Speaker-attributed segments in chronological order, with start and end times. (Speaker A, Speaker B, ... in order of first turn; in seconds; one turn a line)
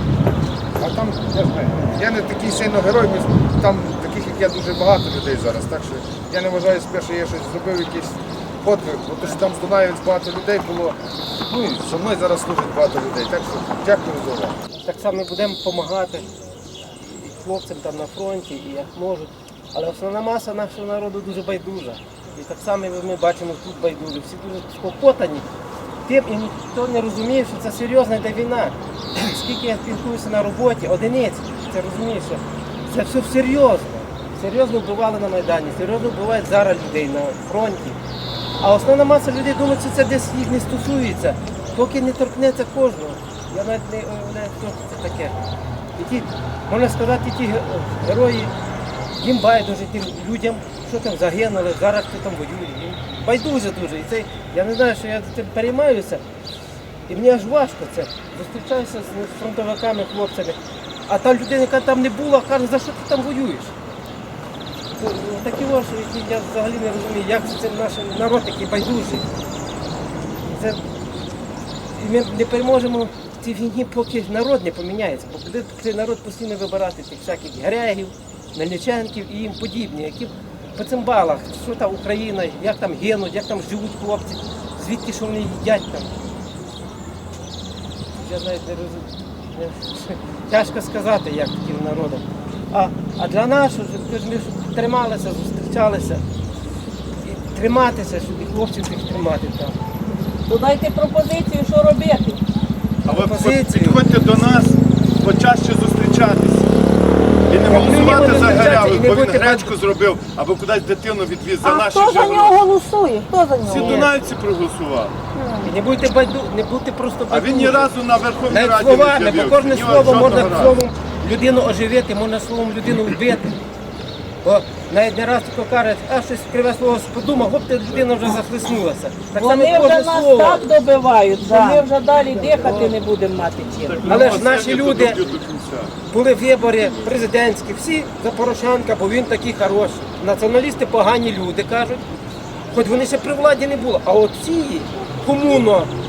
Speaker A: 0.8-14.6
Speaker B: 14.8-16.3
Speaker B: 17.0-25.4
Speaker B: 26.0-38.0
Speaker B: 38.6-45.4
Speaker B: 46.0-48.5
Speaker B: 49.2-56.2
Speaker B: 57.1-63.7
Speaker B: 64.9-69.2
Speaker B: 70.5-70.8
Speaker B: 71.9-86.1
Speaker B: 88.1-96.2
Speaker B: 97.2-99.8
Speaker C: 100.5-102.4
Speaker D: 103.0-106.7
Speaker B: 103.1-104.0
Speaker D: 107.5-112.7
Speaker B: 107.6-109.7
Speaker E: 111.6-114.0
Speaker D: 113.5-115.1
Speaker B: 113.7-114.1
Speaker E: 115.4-115.7
Speaker B: 115.6-117.9
Speaker D: 117.3-120.8
Speaker B: 118.5-123.5
Speaker B: 124.4-130.7
Speaker C: 129.3-134.3
Speaker D: 133.8-135.9
Speaker B: 134.1-135.2
Speaker B: 136.1-142.0
Speaker B: 142.7-145.9